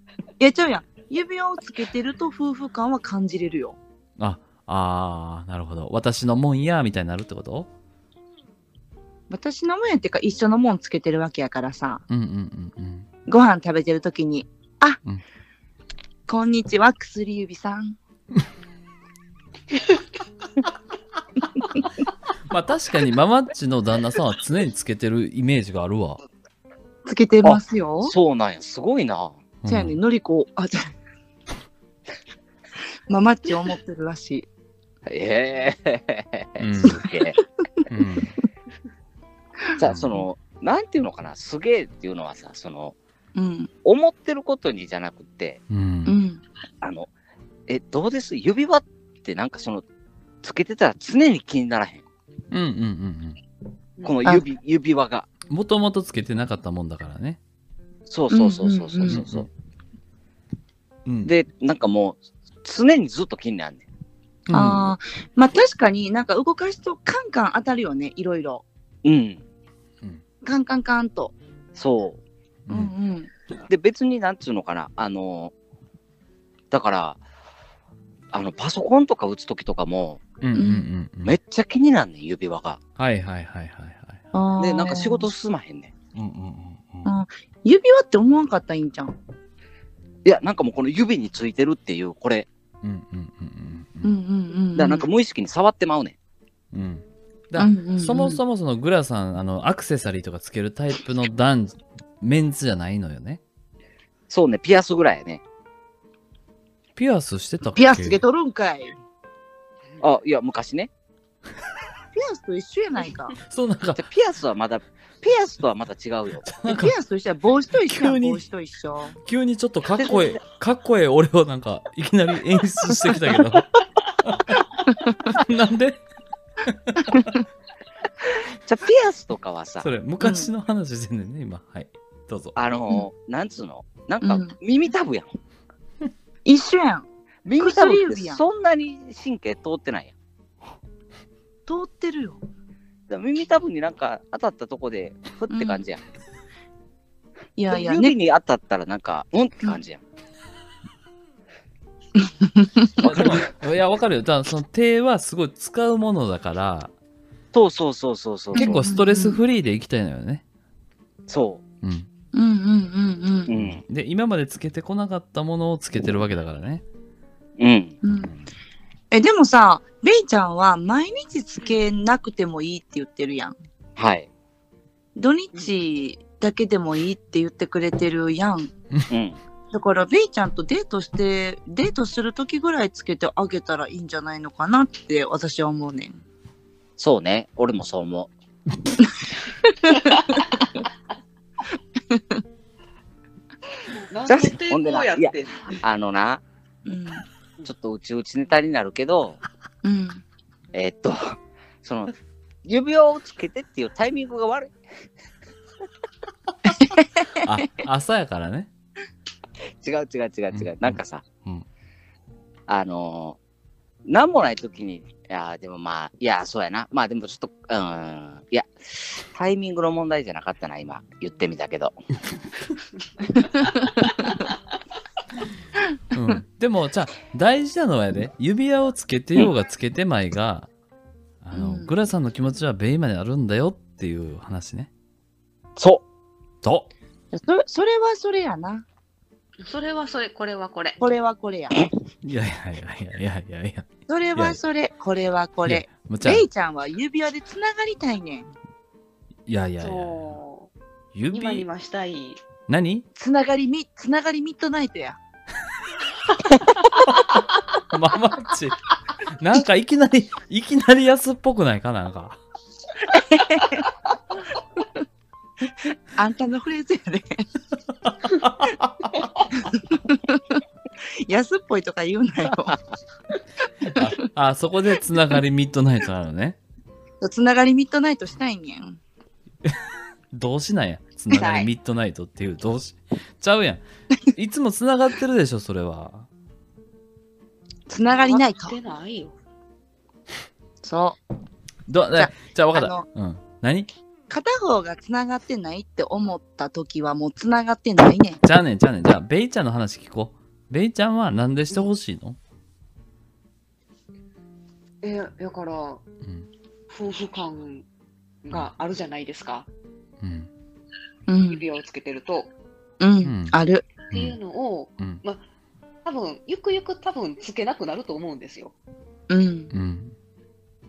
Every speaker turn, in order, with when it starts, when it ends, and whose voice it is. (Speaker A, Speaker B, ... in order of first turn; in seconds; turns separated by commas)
Speaker A: 0.4-3.8, Speaker B: 4.2-7.7, Speaker A: 9.3-12.0, Speaker B: 12.1-13.1, Speaker A: 13.3-15.0, Speaker A: 16.3-18.0, Speaker B: 22.5-26.2, Speaker A: 27.1-28.1, Speaker C: 27.4-29.4, Speaker B: 29.6-30.0, Speaker A: 29.7-30.8, Speaker A: 33.1-34.5, Speaker C: 35.1-37.4, Speaker B: 36.6-37.0, Speaker B: 37.9-38.3, Speaker C: 39.8-43.0, Speaker B: 39.9-40.2, Speaker A: 43.4-43.7, Speaker C: 43.8-45.6, Speaker B: 45.7-46.1, Speaker A: 46.1-46.4, Speaker C: 46.8-47.1, Speaker C: 47.7-49.8, Speaker C: 50.4-52.0, Speaker B: 52.5-53.4, Speaker C: 54.0-55.3, Speaker B: 55.5-57.4, Speaker C: 58.1-59.5, Speaker A: 58.3-59.2, Speaker B: 59.1-59.5, Speaker B: 61.1-61.3, Speaker C: 61.2-63.9, Speaker B: 64.5-64.9, Speaker A: 64.5-68.7, Speaker C: 69.0-69.4, Speaker A: 70.4-71.3, Speaker C: 71.8-72.2, Speaker B: 72.7-72.9, Speaker A: 72.7-73.3, Speaker C: 73.7-75.5, Speaker C: 76.7-77.2, Speaker C: 78.3-80.2, Speaker B: 80.4-81.4, Speaker A: 80.5-80.9, Speaker C: 81.2-82.8, Speaker B: 83.0-84.2, Speaker A: 84.3-85.3, Speaker C: 84.6-86.0, Speaker B: 86.1-87.1, Speaker A: 87.0-89.2, Speaker C: 90.2-92.5, Speaker B: 92.8-94.1, Speaker A: 94.0-95.1, Speaker C: 94.8-96.2, Speaker B: 96.7-103.4, Speaker A: 97.6-98.4, Speaker C: 104.3-105.4, Speaker B: 107.0-108.2, Speaker A: 107.7-109.0, Speaker C: 110.0-110.9, Speaker A: 112.1-113.3, Speaker B: 113.5-114.0, Speaker C: 113.9-116.5, Speaker B: 116.5-116.9, Speaker A: 116.7-119.2, Speaker B: 117.8-118.5, Speaker B: 119.2-124.6, Speaker A: 124.9-125.2, Speaker B: 125.2-126.0, Speaker B: 126.7-127.3, Speaker A: 127.1-127.4, Speaker C: 128.7-129.9, Speaker B: 129.8-132.6, Speaker A: 130.2-130.5, Speaker C: 132.6-135.3, Speaker A: 134.2-134.5, Speaker A: 136.4-137.1, Speaker C: 137.4-140.2, Speaker A: 137.6-138.4, Speaker A: 141.7-142.4, Speaker C: 143.1-146.0, Speaker A: 145.5-145.8, Speaker A: 147.6-148.2, Speaker C: 147.7-150.0, Speaker A: 152.2-153.1, Speaker B: 153.0-156.9, Speaker C: 153.0-153.5, Speaker C: 157.5-158.8, Speaker B: 158.6-160.4, Speaker A: 158.6-159.4, Speaker C: 161.3-161.6, Speaker B: 161.8-162.1, Speaker A: 162.3-163.5, Speaker C: 163.5-163.8, Speaker B: 163.6-166.8, Speaker C: 167.6-168.0, Speaker A: 168.0-168.3, Speaker B: 168.1-168.4, Speaker A: 169.1-173.6, Speaker C: 174.0-174.3, Speaker A: 175.2-178.7, Speaker C: 179.1-179.4, Speaker A: 179.7-186.1, Speaker C: 187.0-188.3, Speaker A: 189.7-190.6, Speaker D: 194.1-195.8, Speaker C: 194.3-196.4, Speaker A: 196.9-197.2, Speaker C: 197.7-199.4, Speaker A: 199.8-200.2, Speaker C: 200.7-202.1, Speaker C: 202.7-204.8, Speaker A: 206.8-207.0, Speaker B: 207.4-208.7, Speaker C: 209.8-211.2, Speaker B: 210.5-211.7, Speaker C: 212.7-213.4, Speaker C: 214.1-222.0, Speaker A: 223.4-224.3, Speaker B: 226.1-230.7, Speaker B: 231.4-234.9, Speaker A: 231.5-231.9, Speaker C: 235.8-236.0, Speaker B: 236.6-236.9, Speaker A: 237.3-238.8, Speaker D: 239.6-241.0, Speaker A: 241.0-241.9, Speaker B: 242.2-244.6, Speaker A: 244.1-248.5, Speaker B: 245.6-246.5, Speaker B: 249.5-250.4, Speaker D: 249.8-250.7, Speaker B: 251.2-251.7, Speaker D: 251.3-252.4, Speaker B: 252.7-253.1, Speaker A: 253.2-255.2, Speaker B: 257.1-258.9, Speaker B: 259.4-262.4, Speaker A: 263.1-263.9, Speaker A: 266.2-267.4, Speaker B: 268.1-269.2, Speaker A: 269.5-270.4, Speaker A: 271.2-272.8, Speaker B: 273.9-276.6, Speaker A: 277.2-279.0, Speaker B: 280.3-283.8, Speaker A: 281.3-281.6, Speaker D: 281.4-281.7, Speaker B: 284.3-286.3, Speaker A: 287.9-288.8, Speaker D: 288.1-289.4, Speaker A: 290.8-291.2, Speaker B: 291.9-293.9, Speaker A: 292.1-293.1, Speaker A: 294.3-298.4, Speaker B: 298.4-302.4, Speaker D: 305.0-306.0, Speaker D: 306.9-307.9, Speaker D: 308.4-309.7, Speaker B: 310.2-310.5, Speaker A: 311.3-311.6, Speaker D: 311.5-312.5, Speaker A: 313.0-313.9, Speaker B: 313.2-313.5, Speaker D: 314.1-315.4, Speaker B: 314.1-314.4, Speaker B: 315.0-315.2, Speaker D: 316.1-318.8, Speaker A: 319.3-319.7, Speaker B: 319.7-320.1